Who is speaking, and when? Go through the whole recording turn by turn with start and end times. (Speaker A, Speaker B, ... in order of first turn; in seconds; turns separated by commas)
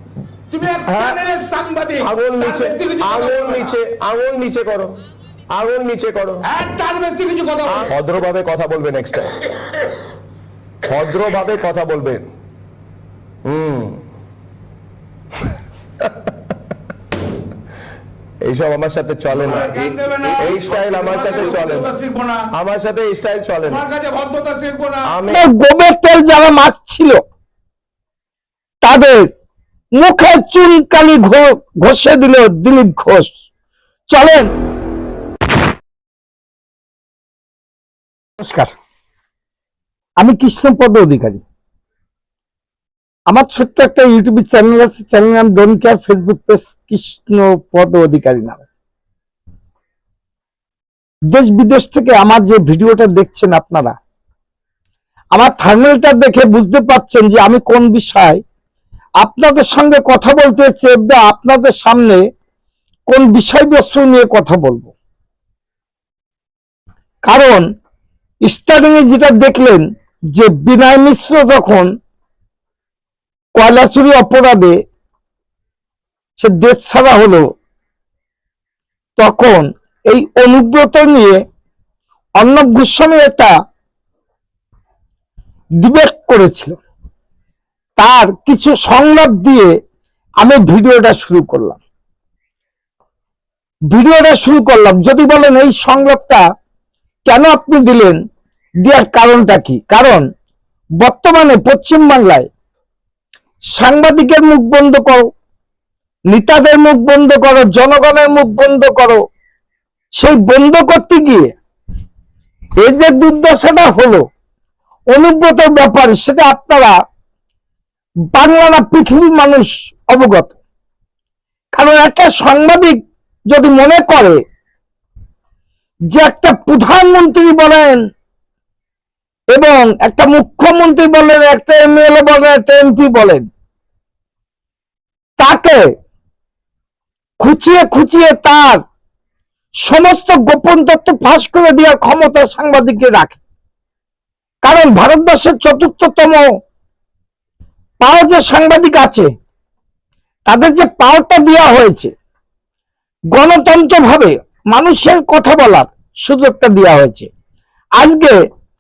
Speaker A: 0.5-3.7, Speaker B: 0.9-1.2, Speaker B: 2.0-5.0, Speaker B: 5.5-6.5, Speaker A: 6.5-7.9, Speaker B: 7.7-9.3, Speaker B: 10.9-12.3, Speaker B: 13.5-14.0, Speaker B: 18.4-21.9, Speaker A: 19.4-22.4, Speaker B: 22.5-23.9, Speaker A: 23.7-25.1, Speaker B: 25.1-25.4, Speaker C: 25.3-27.2, Speaker C: 28.8-29.2, Speaker C: 30.0-33.3, Speaker C: 34.1-34.5, Speaker C: 38.4-38.8, Speaker C: 40.2-41.4, Speaker C: 43.3-48.6, Speaker C: 51.3-54.0, Speaker C: 55.4-58.4, Speaker C: 59.2-62.2, Speaker C: 63.1-64.9, Speaker C: 67.3-67.6, Speaker C: 68.5-69.8, Speaker C: 70.3-71.9, Speaker C: 73.6-74.8, Speaker C: 76.4-77.5, Speaker C: 79.2-81.4, Speaker C: 82.4-83.5, Speaker C: 85.8-86.8, Speaker C: 88.0-89.7, Speaker C: 90.4-91.8, Speaker C: 93.9-96.4, Speaker C: 97.3-98.2, Speaker C: 98.8-100.2, Speaker C: 101.0-102.5, Speaker C: 103.8-105.3, Speaker C: 106.3-109.2, Speaker C: 110.2-111.5, Speaker C: 112.8-114.2, Speaker C: 115.1-117.0, Speaker C: 118.3-120.5, Speaker C: 121.8-123.0, Speaker C: 123.5-124.4, Speaker C: 126.1-128.0, Speaker C: 129.5-133.4, Speaker C: 135.4-135.8, Speaker C: 137.4-138.8, Speaker C: 139.8-143.4, Speaker C: 144.6-146.5, Speaker C: 148.0-149.3, Speaker C: 150.5-152.1, Speaker C: 153.3-157.3, Speaker C: 158.0-158.4